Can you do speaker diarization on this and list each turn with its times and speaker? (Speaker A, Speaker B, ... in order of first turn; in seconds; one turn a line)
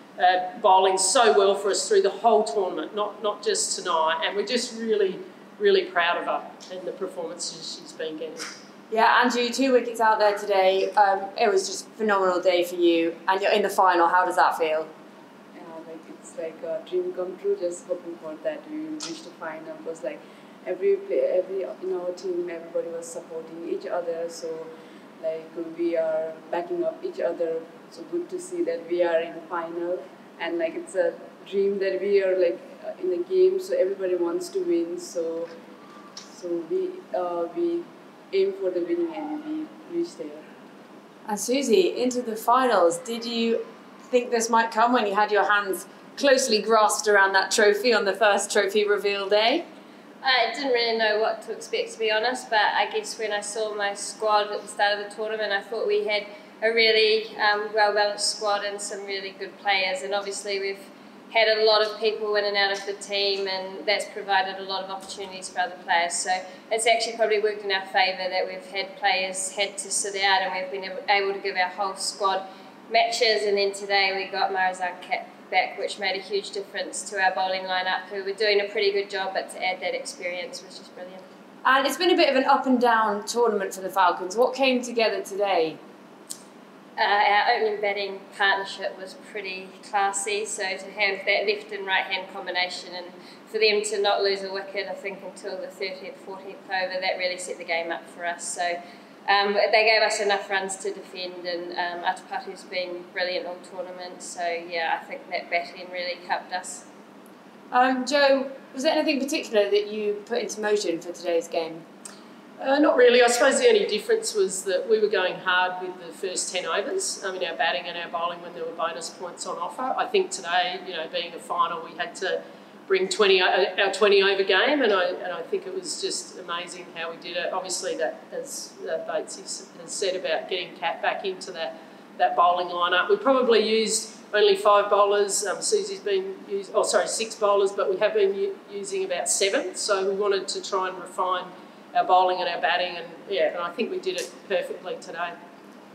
Speaker A: 0.2-8.4
Speaker B: 8.9-14.9
Speaker C: 15.5-35.5
Speaker C: 36.3-40.4
Speaker B: 41.2-49.6
Speaker D: 50.2-81.2
Speaker B: 81.6-85.8
Speaker D: 87.0-106.9
Speaker B: 107.7-111.8
Speaker A: 112.6-145.3